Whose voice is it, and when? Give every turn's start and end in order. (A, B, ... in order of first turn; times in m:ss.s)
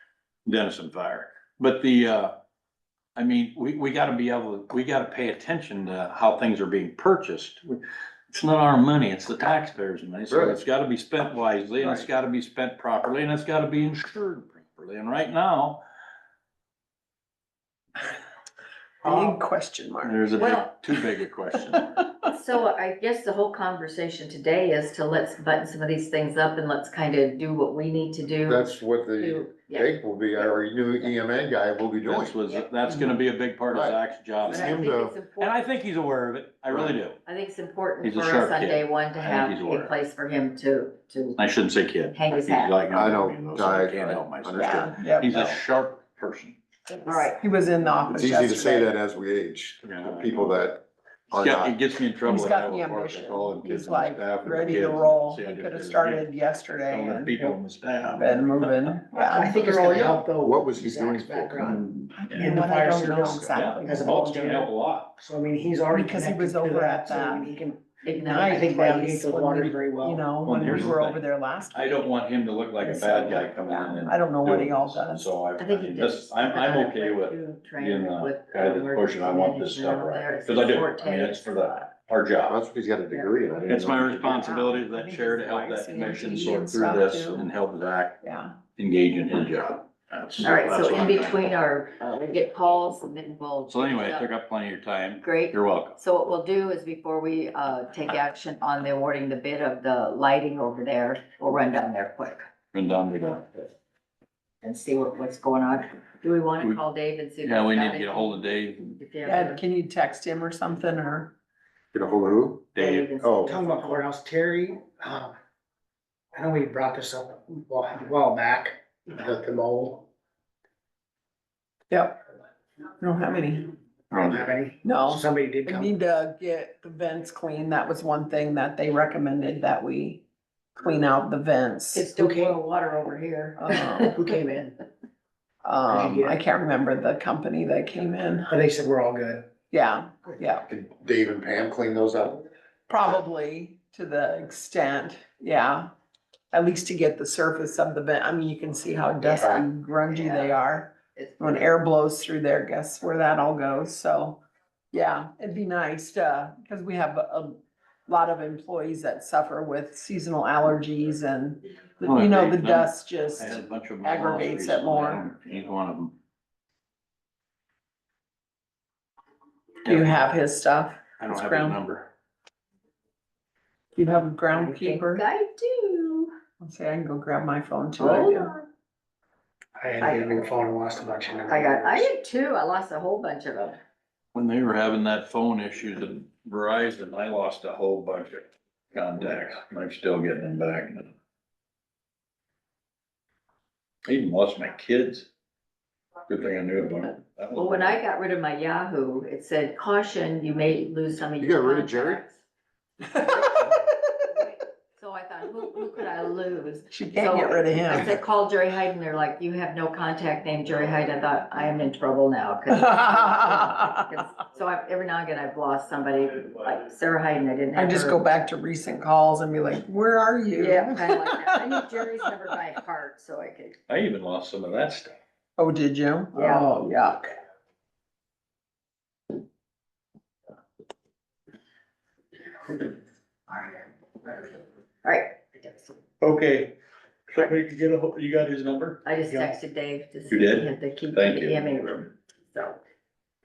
0:00.5-0:02.3 A
0:03.2-0:15.8 A
0:10.3-0:10.6 B
0:19.0-0:20.6 C
0:19.1-0:19.3 D
0:20.0-0:22.1 A
0:22.2-0:31.2 D
0:28.4-0:32.4 B
0:32.0-0:37.2 A
0:33.7-0:35.2 B
0:34.5-0:35.6 D
0:37.2-0:41.4 D
0:38.0-0:39.9 A
0:41.4-0:46.6 A
0:42.1-0:42.9 D
0:42.9-0:45.5 B
0:44.5-0:45.5 C
0:47.0-0:47.4 D
0:47.1-0:48.9 C
0:48.1-0:51.8 B
0:49.8-0:50.6 A
0:51.3-0:56.3 A
0:52.2-0:57.6 C
0:56.9-0:59.0 A
0:58.1-0:59.7 C
0:59.2-1:10.3 E
0:59.7-1:00.1 A
1:00.4-1:01.9 B
1:02.2-1:04.1 C
1:03.3-1:05.2 A
1:05.9-1:12.2 C
1:08.1-1:08.6 D
1:10.4-1:22.6 A
1:12.8-1:15.3 C
1:15.6-1:21.9 D
1:22.5-1:24.6 B
1:23.1-1:23.4 D
1:23.7-1:28.2 A
1:24.3-1:27.5 C
1:28.2-1:28.6 C
1:28.8-1:31.4 A
1:30.4-1:34.3 D
1:33.7-1:36.0 A
1:35.2-1:42.4 D
1:42.7-1:43.7 A
1:44.6-1:49.6 D
1:47.4-1:49.0 A
1:49.2-1:51.3 C
1:51.9-1:53.5 B
1:52.8-1:53.1 A
1:52.8-1:54.1 D
1:53.4-1:55.3 E
1:56.3-2:00.0 E
2:01.9-2:02.2 C
2:03.0-2:03.8 C
2:04.1-2:05.9 E
2:04.1-2:04.4 A
2:04.8-2:10.2 C
2:10.8-2:12.1 C
2:11.9-2:14.3 D
2:12.1-2:12.6 E
2:13.6-2:14.1 C
2:14.1-2:14.8 E
2:15.6-2:18.5 C
2:15.9-2:16.4 E
2:18.5-2:19.5 E
2:19.7-2:20.7 C
2:20.7-2:22.5 B
2:22.9-2:25.9 C
2:26.5-2:34.4 C
2:29.2-2:30.6 D
2:31.1-2:31.7 D
2:34.9-2:45.3 C
2:42.0-2:46.1 A
2:49.8-2:50.2 A
2:49.9-2:51.8 C
2:51.2-2:52.1 A
2:54.0-2:55.2 C
2:54.5-2:56.3 D
2:56.6-2:58.5 C
2:58.0-2:58.7 D
2:59.8-3:02.1 E
3:00.0-3:00.4 D
3:01.5-3:03.8 D
3:04.3-3:11.1 A
3:14.1-3:15.3 A
3:16.3-3:18.0 A
3:17.6-3:22.4 D
3:21.4-3:22.2 B
3:23.1-3:38.3 D
3:26.9-3:28.1 C
3:32.8-3:34.0 C
3:37.8-3:41.8 C
3:40.6-3:43.8 D
3:43.9-3:45.1 A
3:45.6-3:47.3 C
3:46.3-3:46.7 D
3:55.0-3:56.0 D
3:56.2-3:56.7 A
3:57.3-3:59.0 A
3:59.0-4:02.8 D
4:00.3-4:01.8 A